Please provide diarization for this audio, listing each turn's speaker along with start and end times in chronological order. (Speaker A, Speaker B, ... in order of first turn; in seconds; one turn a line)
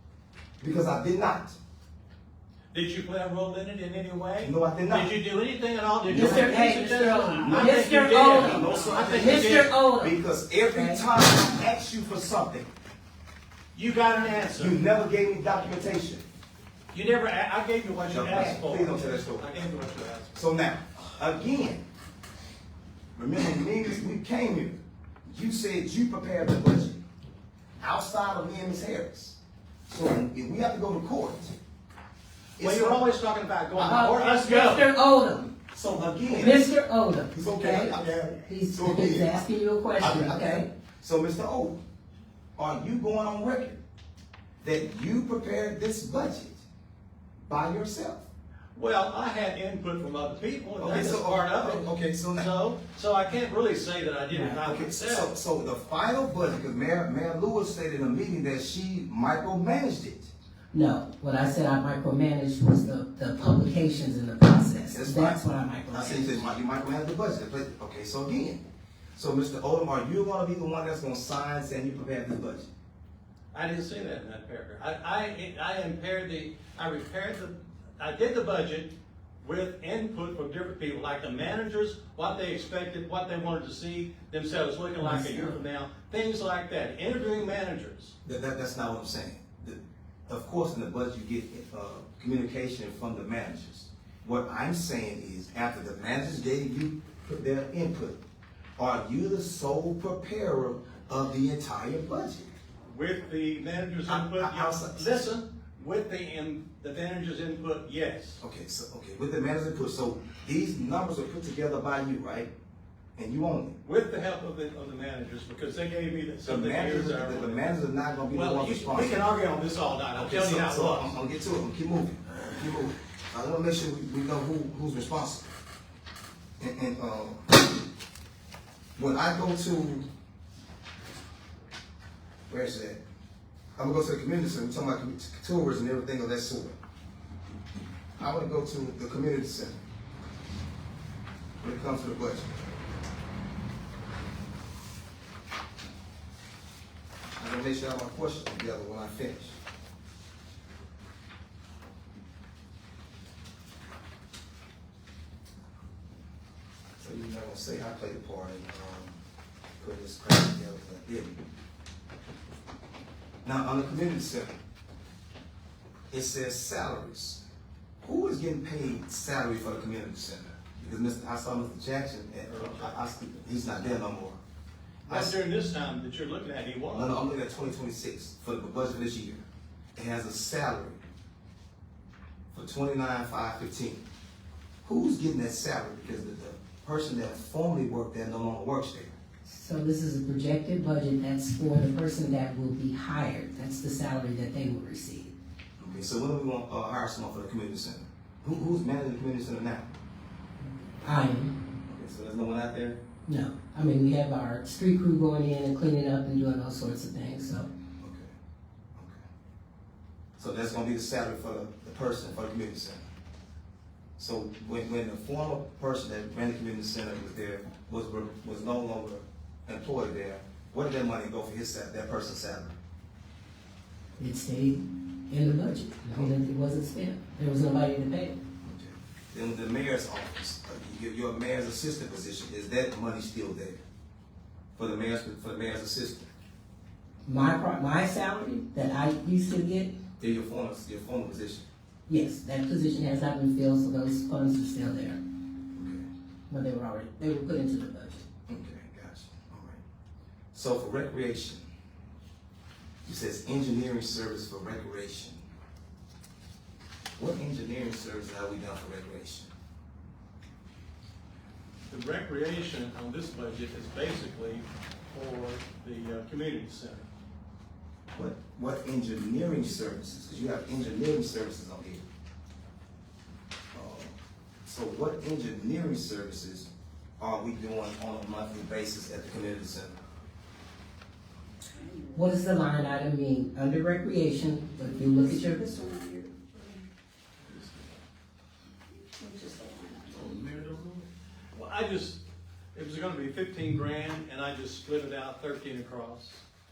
Speaker A: 0.6-1.6
Speaker B: 2.7-9.7
Speaker A: 4.4-5.1
Speaker C: 6.1-11.0
Speaker A: 6.1-12.7
Speaker B: 13.7-14.8
Speaker A: 14.6-16.2
Speaker B: 16.9-20.5
Speaker A: 18.1-19.5
Speaker A: 20.3-21.8
Speaker A: 23.1-27.0
Speaker A: 27.8-29.4
Speaker A: 29.9-31.5
Speaker A: 32.6-33.0
Speaker B: 32.6-34.9
Speaker A: 33.7-34.1
Speaker C: 33.9-35.5
Speaker A: 35.7-36.6
Speaker C: 36.3-40.7
Speaker A: 37.3-39.4
Speaker A: 40.0-41.8
Speaker A: 42.6-43.8
Speaker A: 44.6-46.6
Speaker A: 47.5-48.2
Speaker B: 48.7-55.3
Speaker A: 50.8-52.5
Speaker C: 54.3-54.6
Speaker A: 54.6-60.3
Speaker C: 60.7-66.4
Speaker A: 64.9-68.6
Speaker A: 69.2-72.7
Speaker B: 73.5-88.1
Speaker C: 85.0-85.6
Speaker A: 88.2-98.2
Speaker A: 98.8-102.5
Speaker B: 102.9-108.4
Speaker A: 104.0-105.3
Speaker A: 108.4-112.5
Speaker A: 113.2-113.8
Speaker B: 113.8-117.8
Speaker A: 116.4-119.2
Speaker B: 118.3-121.1
Speaker A: 120.1-125.5
Speaker A: 126.6-127.6
Speaker A: 128.9-130.1
Speaker A: 132.5-133.0
Speaker A: 133.8-136.8
Speaker A: 138.2-139.8
Speaker A: 141.6-142.5
Speaker A: 147.4-149.6
Speaker A: 157.0-159.2
Speaker A: 159.8-161.4
Speaker A: 163.4-164.6
Speaker A: 166.1-167.4
Speaker A: 168.0-174.4
Speaker B: 172.4-172.9
Speaker A: 175.1-175.3
Speaker B: 175.1-177.2
Speaker A: 176.9-179.4
Speaker A: 179.9-181.0
Speaker A: 182.5-184.0
Speaker A: 184.8-189.2
Speaker C: 189.4-195.3
Speaker A: 195.8-199.9
Speaker C: 201.0-201.5
Speaker A: 201.8-203.0
Speaker C: 203.3-207.7
Speaker A: 208.0-208.3
Speaker A: 208.9-209.2
Speaker A: 210.4-213.0
Speaker A: 214.2-222.7
Speaker C: 224.2-228.4
Speaker A: 228.6-233.8
Speaker A: 234.8-236.3
Speaker C: 237.2-239.9
Speaker A: 240.2-241.7
Speaker C: 242.1-245.2
Speaker A: 245.7-246.1
Speaker C: 246.5-248.2
Speaker A: 248.5-249.8
Speaker A: 250.5-251.6
Speaker A: 253.1-255.4
Speaker A: 257.2-259.5
Speaker B: 261.9-267.1
Speaker A: 268.1-272.0
Speaker A: 273.7-276.7
Speaker A: 277.2-279.9
Speaker D: 281.8-282.2
Speaker C: 282.1-285.7
Speaker D: 284.9-286.8
Speaker D: 289.1-290.9
Speaker B: 291.5-292.2
Speaker B: 292.7-296.4